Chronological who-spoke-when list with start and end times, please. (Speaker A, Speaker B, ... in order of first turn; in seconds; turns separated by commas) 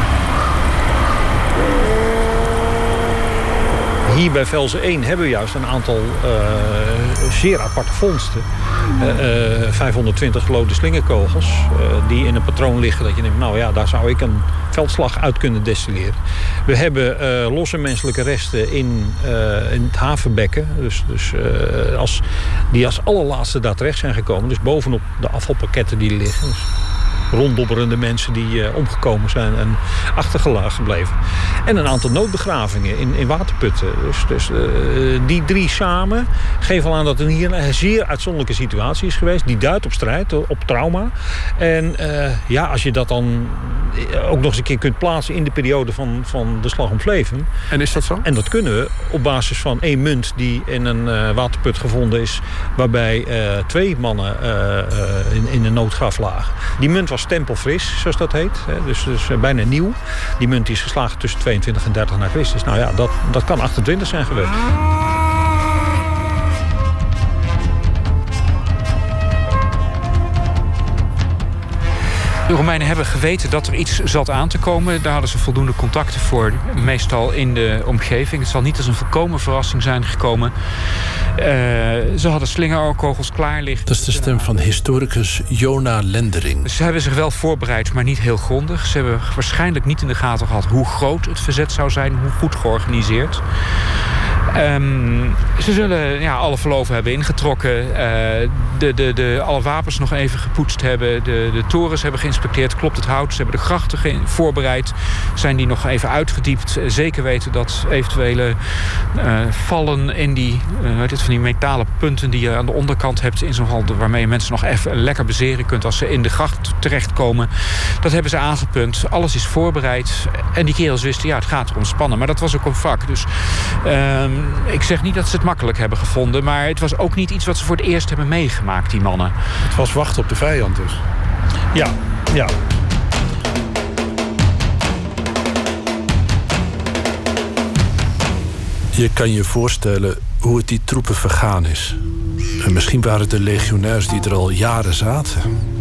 Speaker A: 4.0-26.7, Speaker A: 27.3-64.6, Speaker B: 47.7-48.3, Speaker C: 72.5-80.5, Speaker C: 81.3-84.5, Speaker B: 83.9-86.7, Speaker C: 86.6-93.4, Speaker C: 94.5-129.4, Speaker B: 129.6-131.0, Speaker A: 131.7-132.5, Speaker B: 138.9-142.0, Speaker B: 142.6-145.5